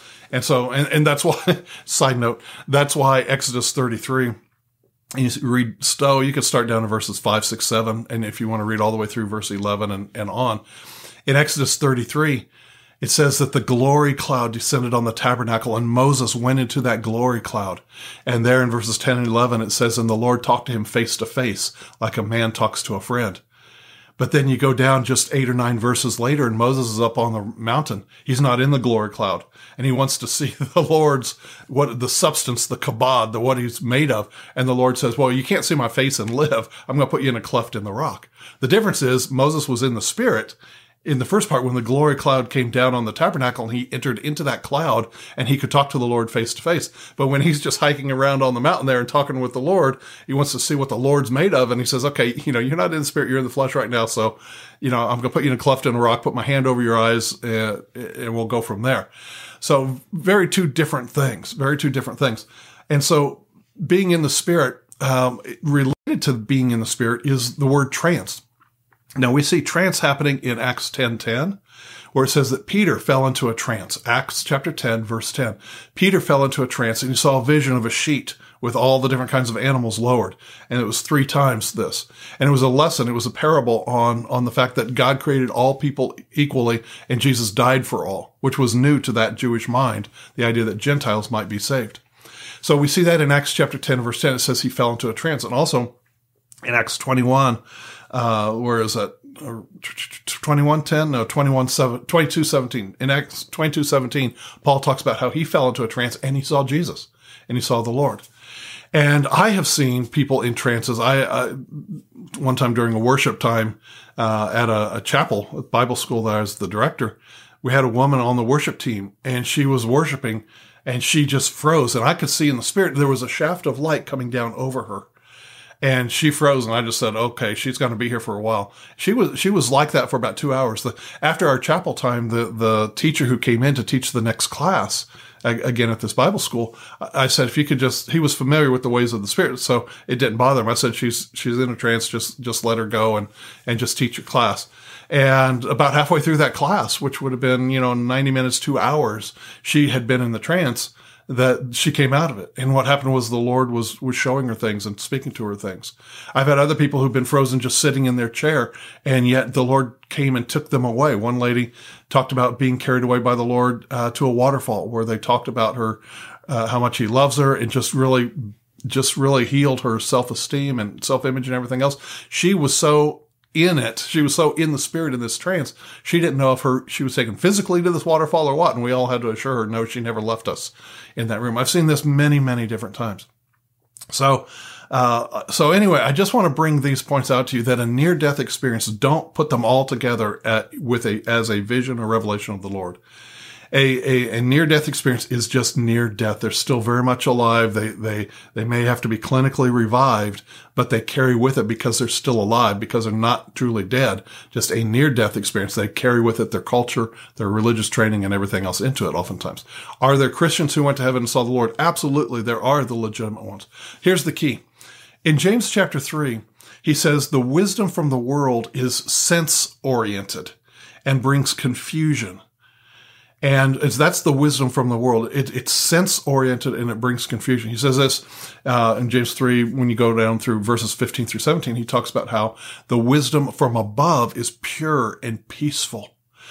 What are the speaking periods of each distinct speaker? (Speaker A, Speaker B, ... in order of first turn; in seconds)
Speaker A: 0.3-4.4, 5.1-10.6, 11.2-12.5, 13.0-23.4, 24.2-59.1, 59.6-68.4, 69.2-71.6, 72.1-92.0, 92.6-95.9, 96.6-97.6, 98.1-108.2, 108.9-125.1, 125.8-183.3, 184.1-193.0, 193.7-214.6, 215.2-222.4, 223.4-236.1